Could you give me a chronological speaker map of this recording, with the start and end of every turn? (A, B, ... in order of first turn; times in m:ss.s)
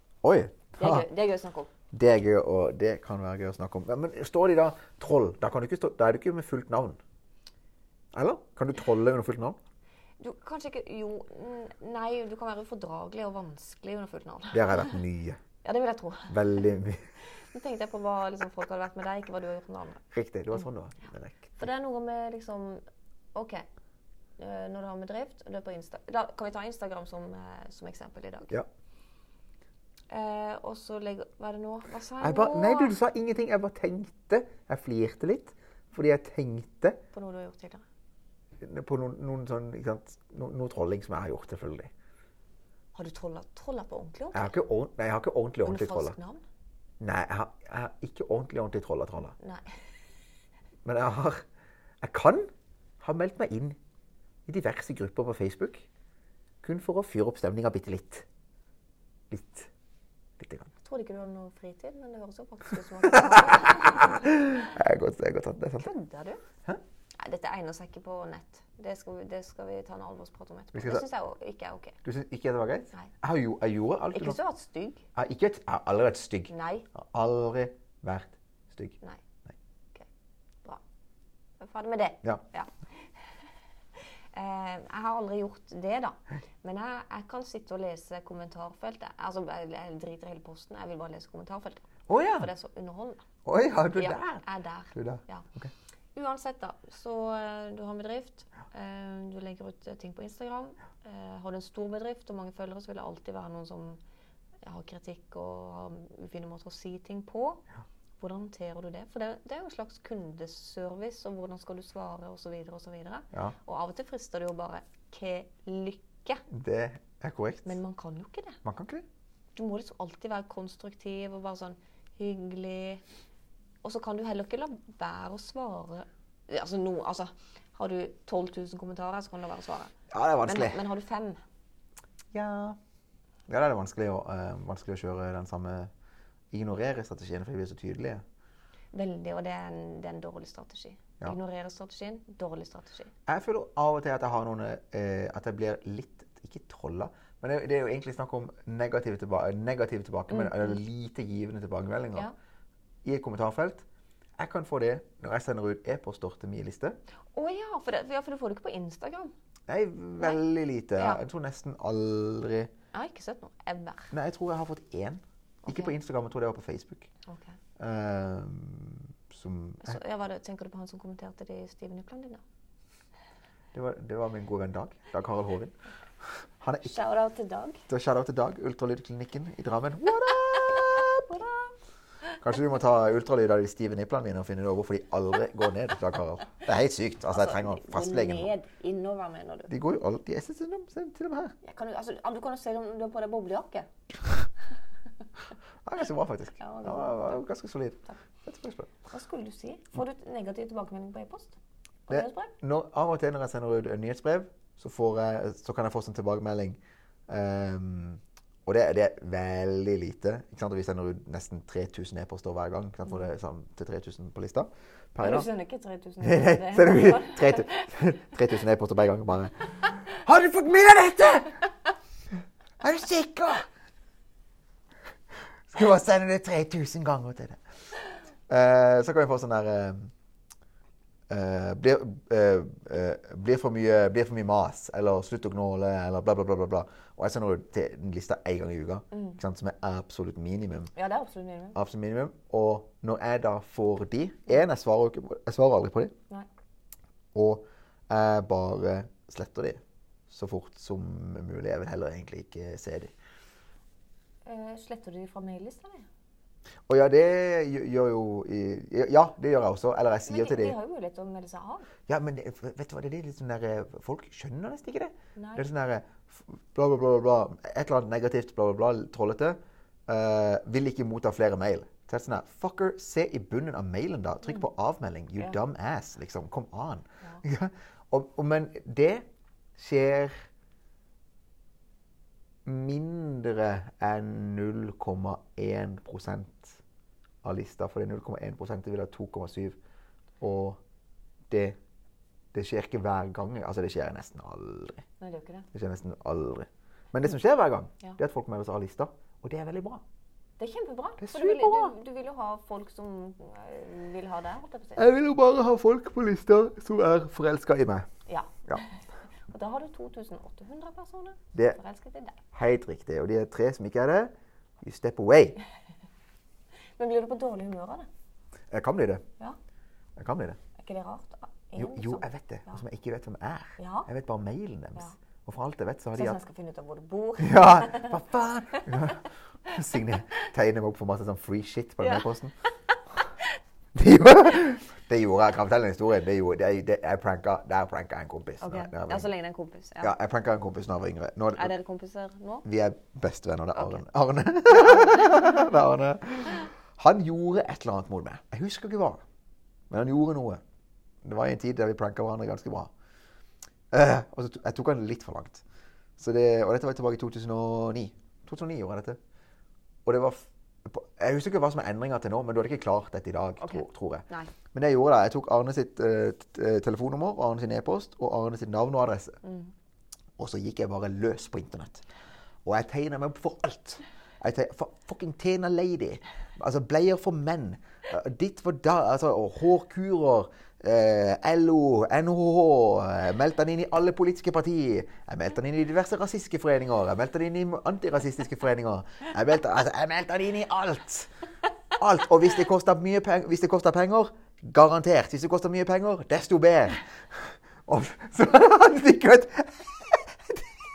0:00.2-0:01.0 A
0:00.8-0:01.7 B
0:01.9-0:07.0 A
0:08.1-0:09.6 A
0:10.2-0:15.0 B
0:14.5-0:15.4 A
0:15.6-0:16.6 B
0:16.3-0:17.0 A
0:17.4-0:20.0 B
0:20.1-0:21.7 A
0:21.6-0:22.8 B
0:23.3-0:23.6 B
0:24.4-0:28.5 B
0:30.1-0:32.9 B
0:32.2-0:37.0 A
0:37.1-0:37.8 B
0:38.6-0:41.9 A
0:42.9-0:44.5 B
0:44.3-0:46.2 A
0:45.6-0:46.4 B
0:47.0-0:49.4 A
0:49.4-0:49.7 B
0:50.8-0:51.4 A
0:52.0-0:52.5 A
0:53.0-0:53.8 A
0:54.5-0:55.9 A
0:56.6-0:58.2 A
0:59.3-0:59.7 A
1:00.4-1:00.7 A
1:00.8-1:04.5 B
1:03.0-1:05.9 A
1:05.8-1:06.4 B
1:07.2-1:12.0 B
1:10.7-1:11.0 A
1:12.0-1:14.4 A
1:14.1-1:15.0 B
1:15.2-1:19.5 A
1:16.5-1:16.9 B
1:21.6-1:22.7 B
1:24.3-1:33.2 B
1:32.1-1:32.5 A
1:33.4-1:35.7 A
1:33.9-1:35.5 B
1:36.1-1:44.0 B
1:44.6-1:47.6 B
1:48.2-1:56.4 B
1:56.5-1:57.8 A
1:57.6-1:58.6 B
1:58.6-1:59.0 A
1:59.5-2:03.0 B
2:03.8-2:09.9 B
2:10.1-2:10.8 A
2:10.4-2:11.4 B
2:12.3-2:12.8 A
2:13.5-2:15.9 A
2:16.5-2:18.2 A
2:18.9-2:23.1 B
2:23.3-2:32.3 A
2:30.3-2:30.8 B
2:33.0-2:33.8 A
2:34.4-2:37.0 A
2:37.3-2:39.3 B
2:39.7-2:42.7 A
2:41.0-2:41.2 B
2:42.9-2:44.1 B
2:44.1-2:47.1 A
2:45.6-2:45.9 B
2:47.2-2:47.6 B
2:47.8-2:50.0 A
2:49.8-2:52.4 B
2:53.7-2:55.7 A
2:56.6-2:56.9 A
2:56.8-2:57.8 B
2:57.9-3:01.4 A
3:00.5-3:01.7 B
3:02.4-3:08.5 A
3:07.3-3:09.7 B
3:09.7-3:11.5 A
3:11.6-3:13.9 B
3:15.8-3:18.9 A
3:16.6-3:17.4 B
3:19.0-3:21.6 B
3:22.1-3:22.5 B
3:22.1-3:35.5 A
3:35.2-3:37.9 B
3:36.2-3:41.6 A
3:42.8-3:43.7 A
3:45.7-3:47.6 A
3:48.5-3:50.1 A
3:51.3-4:00.9 A
3:59.1-3:59.4 B
4:00.9-4:01.8 B
4:01.7-4:06.1 A
4:07.3-4:13.1 A
4:14.4-4:16.1 B
4:16.9-4:20.8 A
4:20.2-4:21.9 B
4:22.1-4:39.2 A
4:25.4-4:25.6 B
4:39.8-4:40.5 A
4:42.6-4:46.8 A
4:47.4-4:49.8 A
4:50.4-4:50.8 A
4:51.5-4:51.8 A
4:52.5-4:55.0 A
4:55.2-4:55.7 B
4:55.7-5:00.0 A
5:00.6-5:05.0 B
5:01.2-5:02.0 A
5:05.0-5:08.1 A
5:08.3-5:12.4 B
5:12.5-5:15.6 A
5:17.0-5:18.1 B
5:18.7-5:19.2 A
5:20.2-5:20.6 A
5:20.8-5:22.8 B
5:21.8-5:26.4 A
5:23.8-5:24.1 B
5:26.1-5:28.1 B
5:27.4-5:32.5 A
5:32.0-5:32.3 B
5:33.9-5:39.3 A
5:38.6-5:40.1 B
5:40.0-5:41.7 A
5:41.6-5:42.6 B
5:42.6-5:49.2 A
5:43.7-5:44.0 B
5:49.9-5:50.6 A
5:51.2-5:52.9 A
5:53.9-5:55.6 A
5:56.2-5:59.2 A
6:00.0-6:09.4 A
6:03.6-6:04.5 B
6:09.4-6:09.7 B
6:10.4-6:12.0 A
6:12.6-6:31.3 A
6:32.0-6:40.6 A